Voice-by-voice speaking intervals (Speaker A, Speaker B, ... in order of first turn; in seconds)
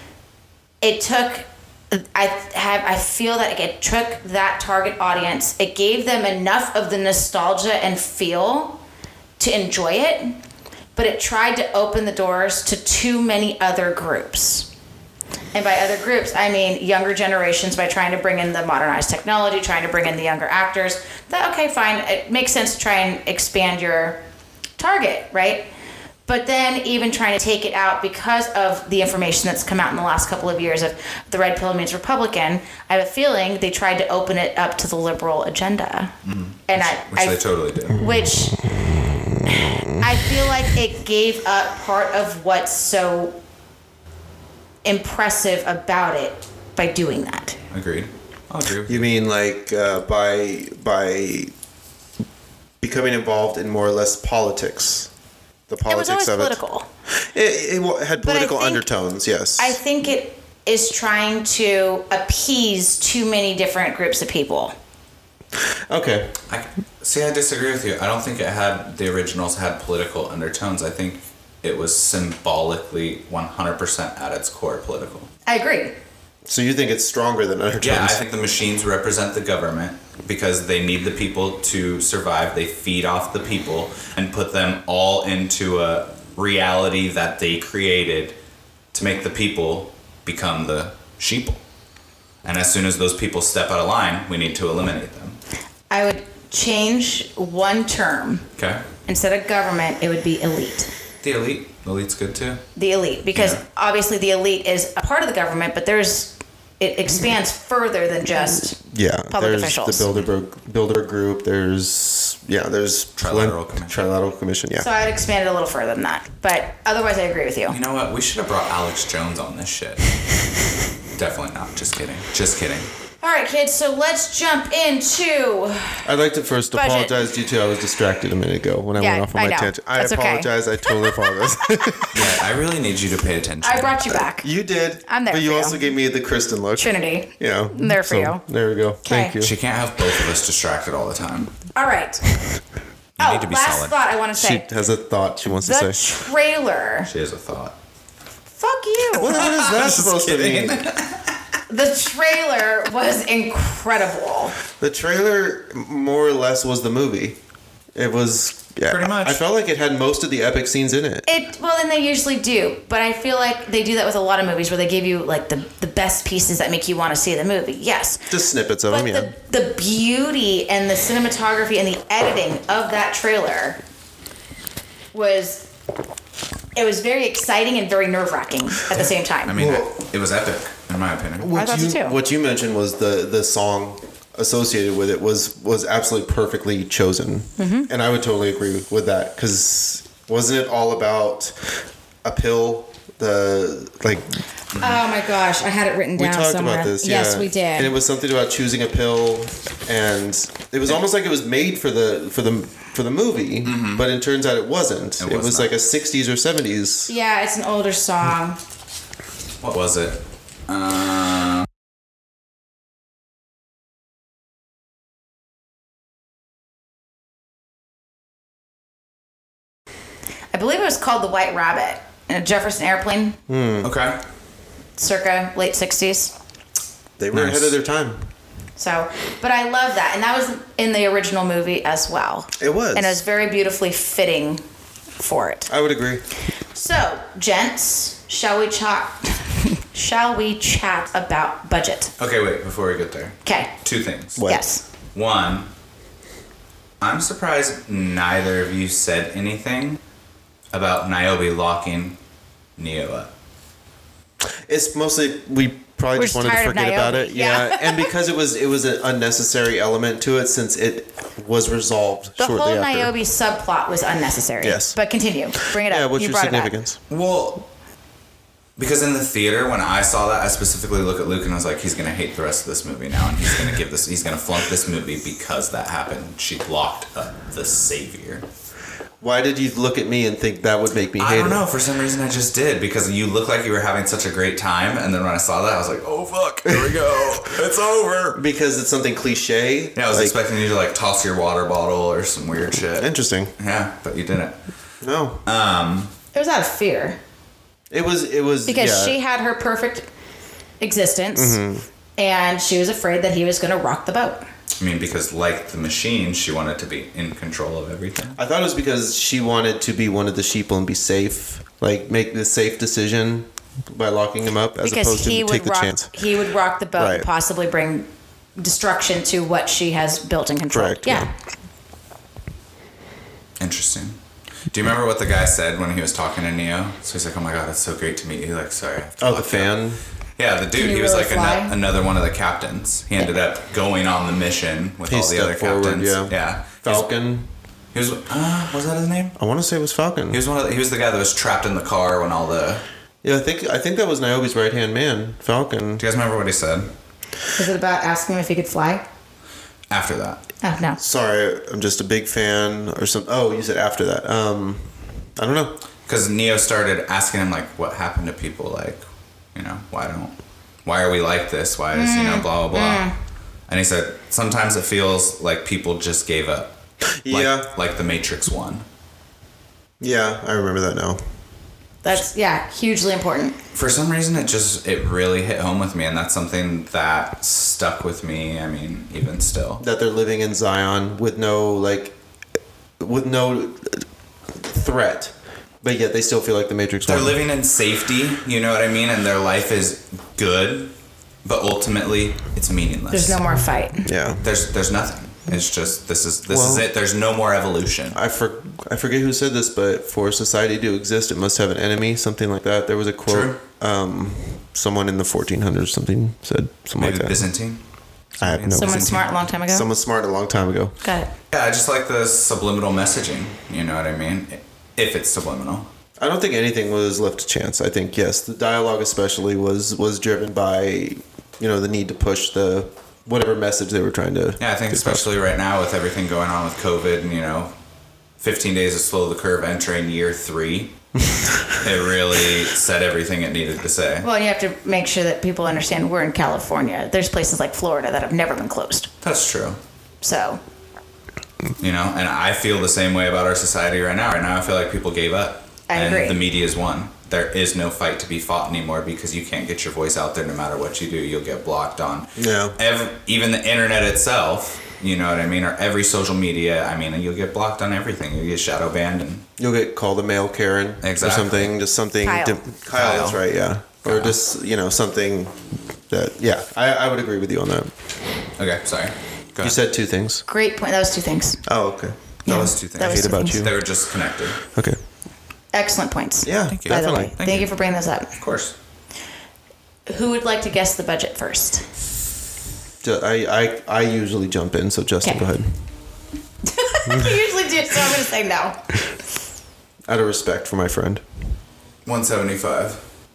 Speaker A: 0.8-8.8, 9.4-10.3, 10.9-14.7, 15.5-24.2, 24.8-25.7, 26.3-36.1, 36.7-38.6, 39.4-43.4, 44.8-47.6, 55.9-56.9, 58.2-58.9, 59.6-64.7, 75.5-75.9, 95.9-98.5, 99.0-100.9, 102.8-108.8, 109.3-110.1, 114.8-117.8, 123.2-126.1, 126.7-127.3, 129.0-131.3, 133.6-134.5, 135.1-135.8, 136.8-138.4, 139.0-139.4, 141.7-142.3, 143.2-144.7, 145.6-147.1, 148.6-149.4, 151.7-154.6, 161.2-168.2, 168.9-173.8, 175.1-175.7, 176.8-179.6, 181.5-182.1, 187.6-187.9, 194.8-197.9, 207.1-208.6, 220.5-223.4, 225.0-226.3, 228.8-234.6, 235.2-235.7, 236.7-242.1, 243.4-243.7, 244.4-244.8, 256.1-258.1, 262.4-266.7, 296.3-297.2, 298.7-300.1, 300.8-301.6, 302.2-304.4, 314.8-321.3, 330.7-331.8, 347.5-349.0, 350.6-351.0, 361.9-363.1, 372.0-373.6, 393.1-394.1, 408.7-409.9, 411.0-411.3, 434.2-439.1, 440.2-440.6, 445.9-446.4, 462.2-462.6, 470.5-471.6, 472.4-473.6, 475.7-478.3, 480.1-481.9, 486.6-488.8
Speaker B: 36.2-38.0, 47.7-49.1, 66.5-75.3, 77.8-88.3, 88.9-91.6, 92.4-95.4, 98.6-98.8, 101.2-102.6, 103.3-103.6, 113.2-114.0, 117.7-120.1, 121.1-122.9, 132.1-133.9, 139.4-141.6, 143.2-143.9, 147.1-147.8, 149.2-151.4, 158.9-159.4, 178.9-181.5, 194.7-195.0, 203.6-204.1, 205.2-205.7, 209.6-211.7, 223.8-224.2, 227.3-227.7, 242.2-244.4, 245.1-245.7, 247.0-250.0, 250.7-252.2, 252.8-253.3, 267.1-267.6, 268.8-278.4, 281.2-288.4, 289.9-294.6, 295.4-296.1, 304.8-308.4, 323.6-324.2, 324.7-329.8, 330.4-337.1, 337.9-339.3, 340.3-342.8, 346.0-346.9, 349.9-350.4, 356.1-359.0, 359.5-363.1, 363.7-366.8, 367.3-368.8, 373.7-379.8, 387.1-390.9, 391.4-393.4, 394.4-398.2, 403.3-403.6, 407.0-407.8, 408.3-409.3, 411.5-415.9, 424.6-427.7, 428.4-430.9, 431.7-434.3, 439.2-439.8, 441.8-459.4, 461.0-461.7, 462.9-463.4, 464.0-464.4, 468.6-469.8, 472.5-474.6, 476.7-477.8, 478.3-478.7, 492.0-493.0
Speaker C: 38.6-39.9, 48.9-51.5, 52.8-55.1, 55.7-56.6, 57.3-59.8, 65.6-66.3, 76.5-78.2, 108.9-114.9, 126.0-132.3, 134.4-139.6, 144.3-146.0, 149.2-150.8, 154.8-157.4, 157.9-161.3, 168.3-169.3, 179.5-179.9, 181.4-191.7, 192.2-194.4, 196.2-207.1, 223.5-223.9, 227.2-228.3, 232.6-233.2, 235.7-236.2, 244.3-244.6, 254.4-263.1, 264.6-265.0, 265.6-267.0, 279.2-281.6, 286.7-287.0, 288.3-290.3, 293.0-293.5, 295.0-295.4, 297.9-299.2, 301.3-301.9, 308.4-316.1, 317.0-317.3, 320.7-321.3, 329.2-330.0, 335.1-337.5, 339.4-340.4, 343.2-346.1, 351.0-355.8, 367.2-367.7, 370.0-371.2, 379.8-382.1, 383.0-387.4, 394.0-394.4, 396.5-396.9, 398.1-407.5, 408.4-411.0, 416.2-425.3, 452.4-452.8, 459.6-467.9, 469.6-470.4, 471.6-473.8, 474.7-475.0, 476.4-477.3, 483.0-485.8, 487.1-487.4, 490.1-491.2